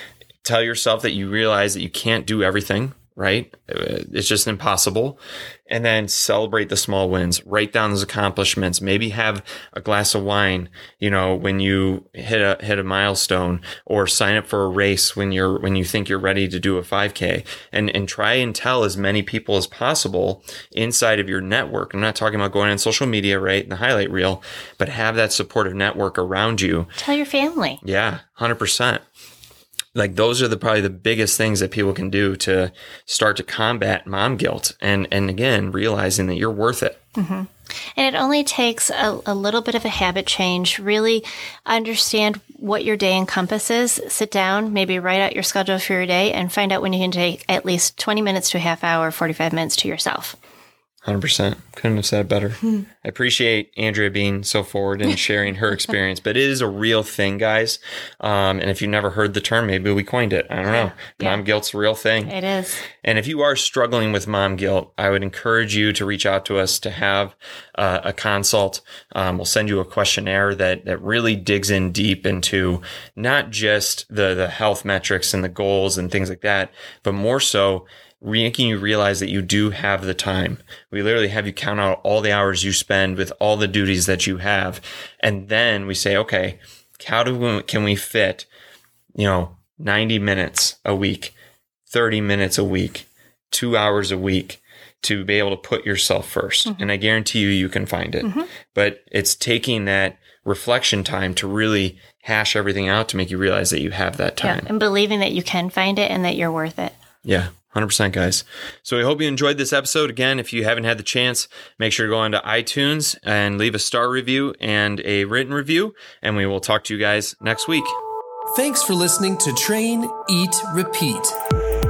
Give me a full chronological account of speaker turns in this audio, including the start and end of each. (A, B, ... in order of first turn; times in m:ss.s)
0:00.4-0:26.9 A
0:27.0-0:27.8 B
0:27.8-0:29.0 A
0:29.9-0:37.0 A
0:37.2-0:50.4 B
0:51.0-1:02.3 A
1:00.7-1:01.4 B
1:02.2-1:02.8 B
1:03.0-1:28.5 A
1:29.2-1:31.3 A
1:31.9-1:44.7 A
1:38.2-1:38.5 B
1:44.4-1:46.9 B
1:47.2-1:58.0 A
1:58.5-2:01.4 C